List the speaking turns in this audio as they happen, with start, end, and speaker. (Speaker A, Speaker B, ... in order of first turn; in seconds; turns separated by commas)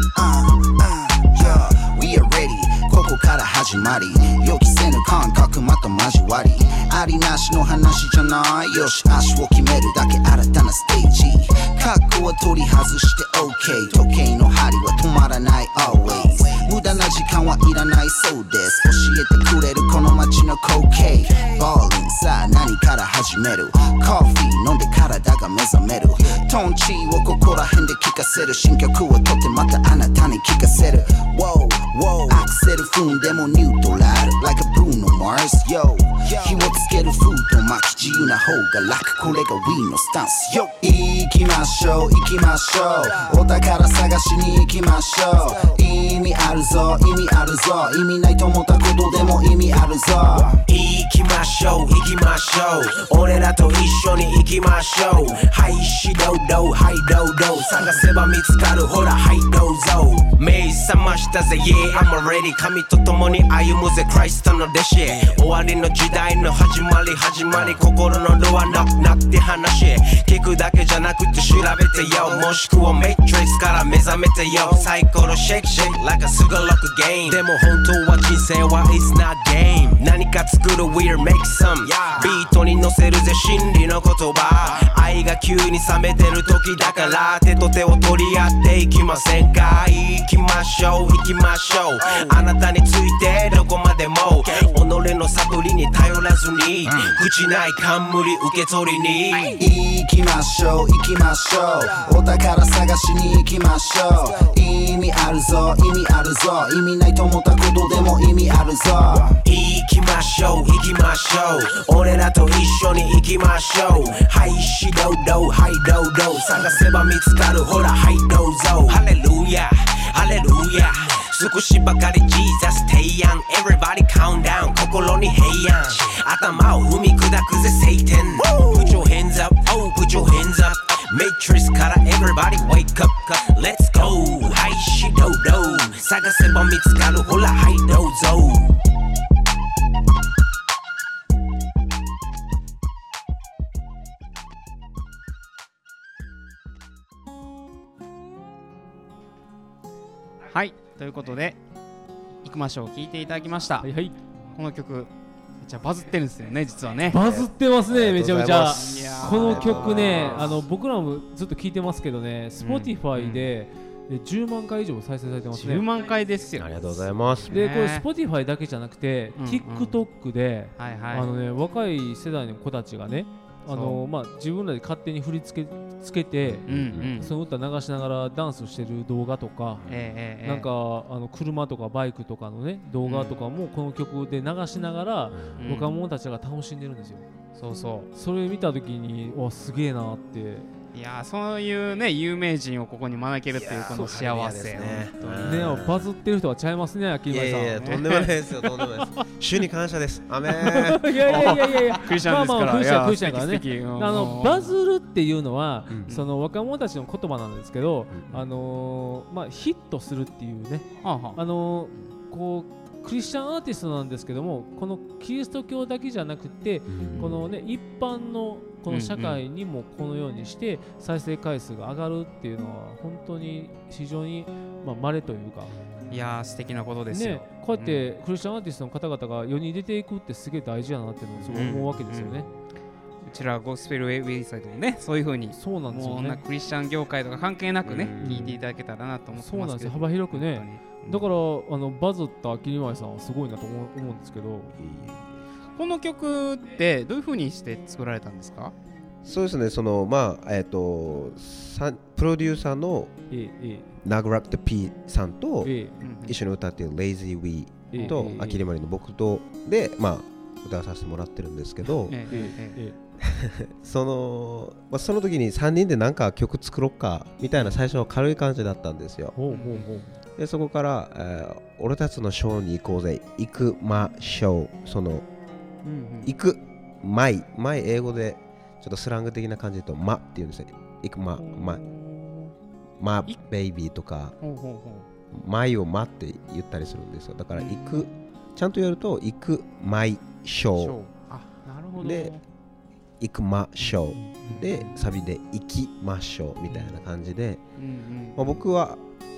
Speaker A: 0.1-50.6, Speaker B: 50.6-99.6, Speaker C: 65.0-65.4, Speaker C: 67.5-67.8, Speaker C: 74.5-74.9, Speaker C: 81.8-82.3, Speaker A: 99.5-109.4, Speaker B: 109.4-138.8, Speaker D: 150.5-151.6, Speaker D: 152.4-153.9, Speaker E: 153.8-154.2, Speaker D: 154.5-157.2, Speaker E: 157.1-165.8, Speaker C: 157.2-160.6, Speaker D: 158.6-160.6, Speaker D: 162.6-163.5, Speaker D: 165.5-168.1, Speaker C: 166.6-167.6, Speaker E: 167.5-179.8, Speaker D: 169.3-170.0, Speaker D: 170.8-171.3, Speaker D: 173.7-174.0, Speaker C: 176.4-177.3, Speaker D: 176.7-177.3, Speaker C: 179.8-180.1, Speaker D: 179.9-180.7, Speaker E: 180.4-187.3, Speaker D: 183.0-183.4, Speaker C: 185.3-185.7, Speaker D: 185.6-185.9, Speaker D: 187.5-188.1, Speaker E: 188.1-190.7, Speaker D: 190.9-195.8, Speaker C: 193.5-196.1, Speaker E: 195.4-197.9, Speaker C: 197.3-201.1, Speaker D: 197.8-199.0, Speaker E: 200.6-225.7, Speaker D: 201.2-204.7, Speaker C: 208.1-208.4, Speaker D: 211.0-211.4, Speaker C: 216.9-217.5, Speaker D: 218.9-219.4, Speaker D: 226.1-228.1, Speaker E: 227.1-232.5, Speaker D: 231.4-232.5, Speaker D: 233.2-241.2, Speaker E: 235.5-236.4, Speaker C: 237.8-238.6, Speaker E: 238.2-238.6, Speaker E: 239.3-244.8, Speaker C: 244.8-245.4, Speaker D: 245.8-248.7, Speaker C: 249.2-253.2, Speaker E: 253.3-253.9, Speaker C: 254.0-255.7, Speaker E: 255.6-256.0, Speaker D: 256.0-256.4, Speaker C: 256.2-262.2, Speaker E: 257.9-258.6, Speaker D: 257.9-258.4, Speaker D: 262.0-262.8, Speaker E: 262.3-263.0, Speaker C: 263.2-269.4, Speaker E: 269.4-270.1, Speaker D: 269.5-269.9, Speaker C: 270.4-275.2, Speaker D: 275.8-276.3, Speaker C: 276.2-281.8, Speaker D: 281.4-282.5, Speaker C: 283.0-284.4, Speaker D: 284.4-285.1, Speaker C: 285.3-291.0, Speaker D: 287.5-288.1, Speaker D: 290.8-292.4, Speaker C: 292.0-292.4, Speaker C: 293.2-297.6, Speaker D: 293.8-295.0, Speaker E: 294.1-294.5, Speaker D: 297.8-298.7, Speaker C: 298.4-299.0